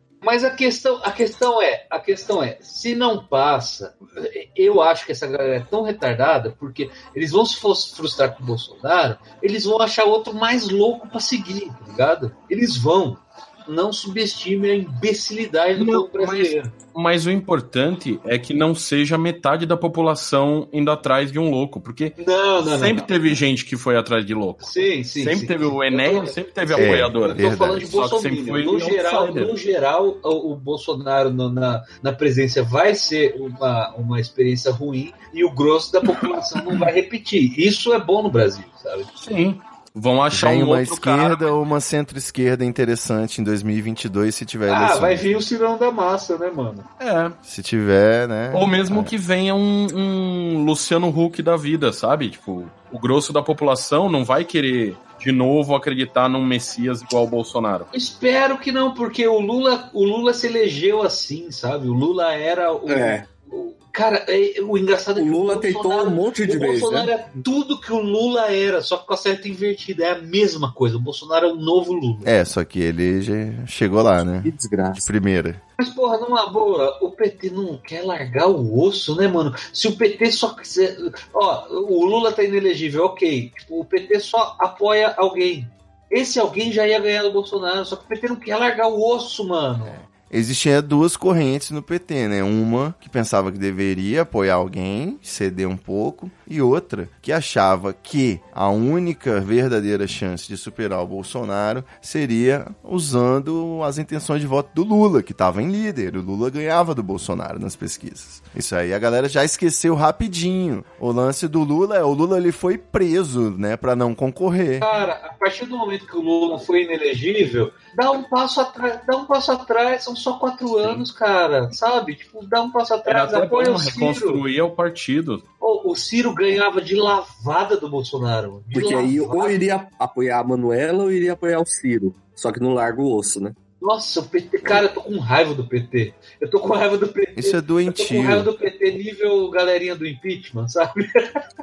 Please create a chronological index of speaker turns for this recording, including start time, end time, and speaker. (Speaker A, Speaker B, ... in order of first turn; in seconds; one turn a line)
Speaker A: 0.2-16.7
Speaker B: 15.8-29.5
Speaker A: 22.2-23.1
Speaker A: 24.6-39.1
Speaker C: 26.8-28.0
Speaker B: 39.2-41.5
Speaker C: 40.3-45.2
Speaker A: 44.7-46.9
Speaker B: 47.0-47.4
Speaker C: 47.5-49.1
Speaker B: 48.5-57.9
Speaker A: 57.9-72.3
Speaker D: 62.9-63.2
Speaker D: 65.2-67.1
Speaker C: 72.2-75.6
Speaker D: 74.4-75.1
Speaker A: 75.8-90.0
Speaker C: 89.9-114.9
Speaker A: 114.8-124.4
Speaker B: 123.0-125.4
Speaker A: 125.6-129.6
Speaker D: 128.7-133.6
Speaker A: 133.8-141.2
Speaker C: 137.3-138.5